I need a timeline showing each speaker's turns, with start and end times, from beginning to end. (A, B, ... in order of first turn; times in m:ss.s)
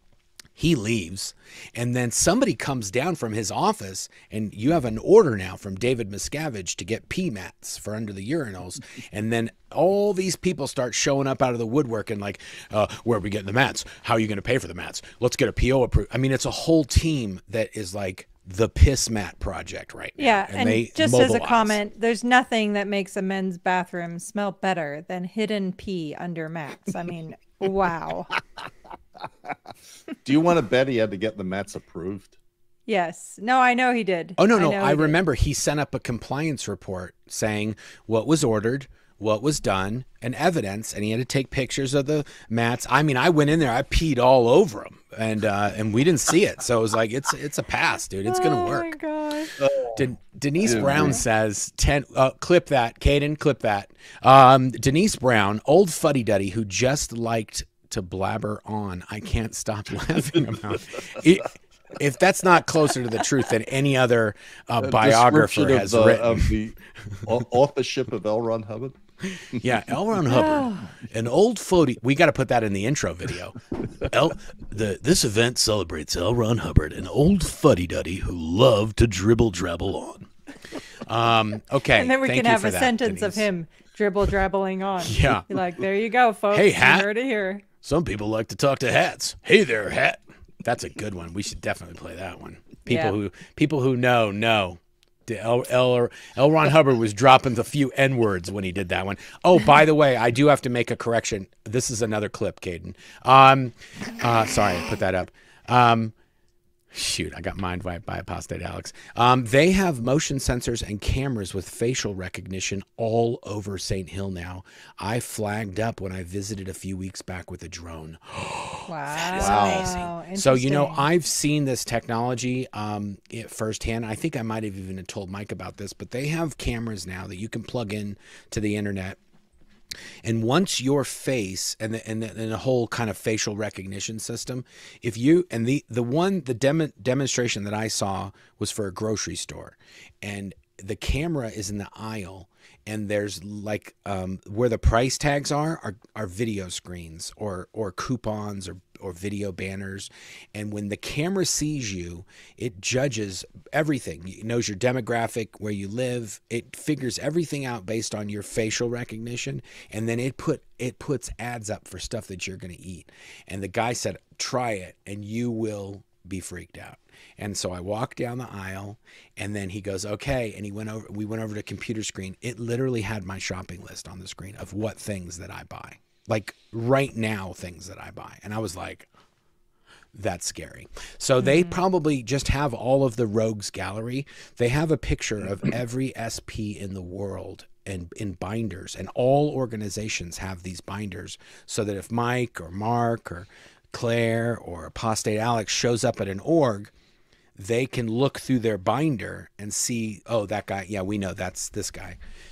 0:00.6-0:21.8 A
0:20.2-0:28.3 B
0:29.2-0:29.5 C
0:30.2-0:32.3 C
0:32.9-0:35.2 B
0:34.4-0:48.9 A
0:48.3-0:49.5 B
0:49.6-0:50.0 C
0:49.9-1:07.3 A
0:50.6-0:51.2 C
1:04.8-1:09.0 C
1:09.3-1:20.3 A
1:10.2-1:10.9 B
1:21.0-1:23.4 A
1:22.0-1:27.6 B
1:25.0-1:25.5 A
1:26.5-1:27.1 A
1:27.8-1:46.1 A
1:32.9-1:33.1 B
1:46.9-2:09.2 A
1:58.9-2:01.1 B
2:10.2-2:59.1 A
3:00.1-3:16.9 A
3:01.4-3:01.8 B
3:17.6-3:22.2 A